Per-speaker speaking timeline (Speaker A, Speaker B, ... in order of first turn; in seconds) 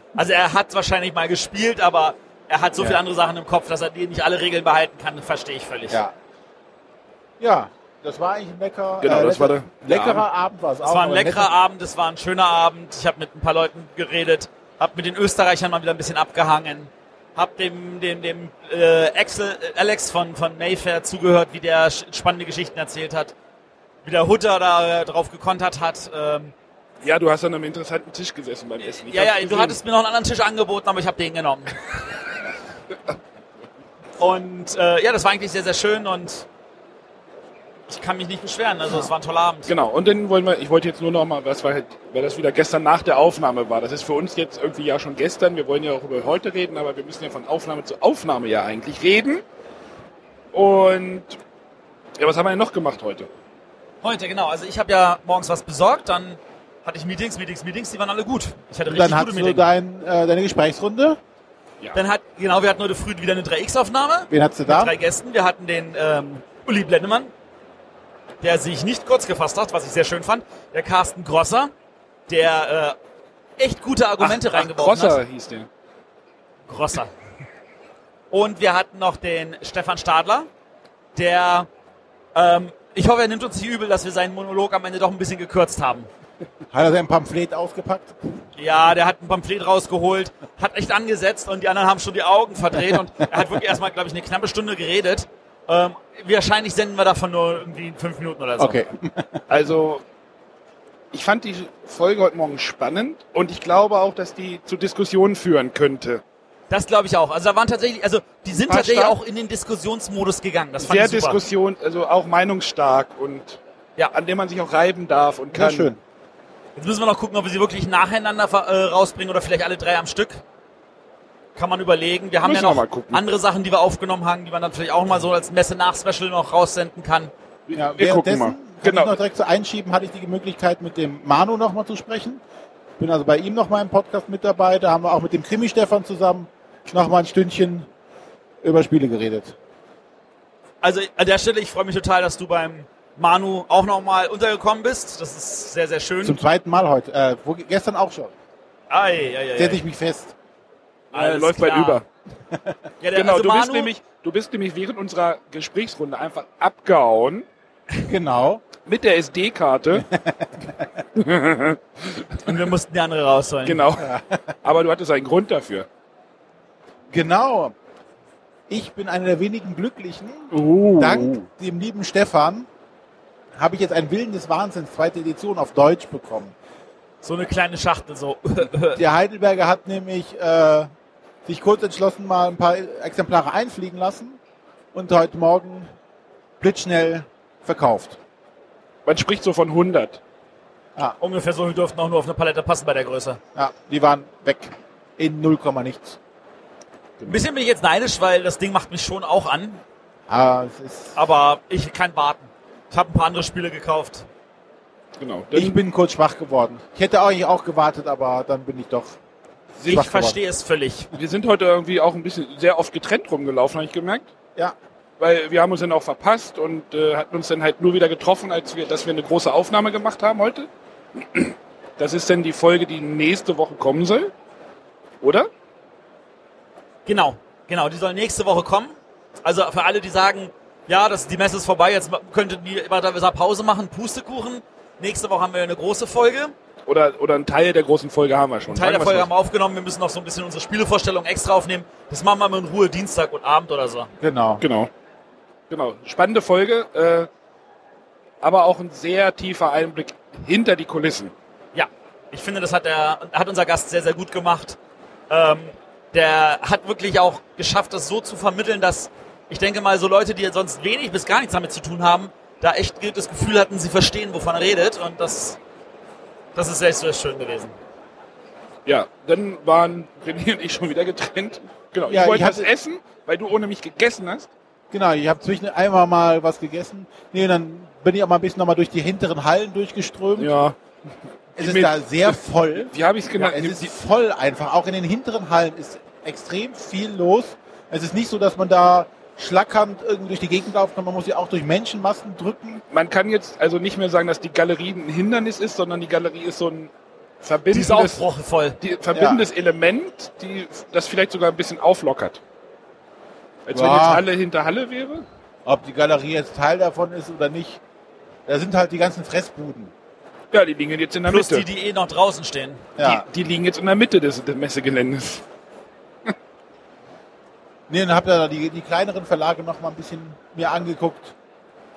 Speaker A: 0.2-6.0, 10.8-23.4, 24.1-26.5, 29.1-31.8, 34.2-36.5, 37.9-39.7, 54.0-59.7, 62.0-67.3, 68.4-71.7, 72.3-73.0, 73.6-75.2, 76.7-77.1, 78.3-80.5, 81.2-81.7, 82.3-86.1, 88.6-98.8, 106.7-111.4, 116.8-120.4, 121.5-127.3, 140.8-146.4, 148.9-149.8, 151.1-152.0, 153.0-153.9, 162.4-163.8, 177.2-179.0, 191.2-193.4, 197.3-199.8, 201.2-204.3, 209.9-211.1, 227.1-236.6, 238.7-244.1, 251.7-254.8, 255.3-265.6, 266.6-267.8, 297.7-298.8, 311.2-312.9
Speaker B: 7.4-11.5, 58.9-61.2, 64.3-64.9, 86.7-88.2, 98.6-99.4, 115.5-116.0, 127.8-132.4, 133.0-137.9, 138.6-139.6, 146.2-148.3, 149.6-150.3, 152.5-152.8, 158.1-158.6, 159.9-161.0, 164.0-164.6, 167.1-167.8, 168.7-172.7, 173.6-176.5, 178.9-180.9, 181.4-184.4, 184.9-185.9, 186.6-188.2, 193.6-196.2, 200.3-201.2, 205.5-209.2, 209.8-210.4, 244.2-244.6, 272.1-272.7, 274.9-280.5, 281.6-292.8, 299.1-299.4, 303.7-304.3, 305.7-307.8, 308.5-309.9, 313.0-313.3, 317.9-321.4
Speaker C: 9.0-10.2, 27.0-29.8, 39.7-49.4, 50.5-51.4, 52.2-53.3, 74.2-75.7, 99.5-100.0, 101.1-106.2, 108.5-109.2, 110.8-113.6, 114.1-115.9, 122.4-123.2, 127.7-129.1, 151.1-152.1, 153.2-157.5, 158.8-160.1, 161.2-162.6, 163.7-165.9, 170.5-171.4, 189.1-190.2, 197.2-197.5, 205.2-205.8, 211.1-214.3, 215.2-224.3, 225.2-225.5, 236.9-239.3, 244.6-244.9, 245.7-247.3, 248.4-251.3, 268.9-274.5, 280.4-280.8, 281.6-282.4, 282.9-283.9, 292.9-296.9, 297.4-298.2, 298.8-302.4, 303.7-305.2, 310.5-311.6, 313.0-315.4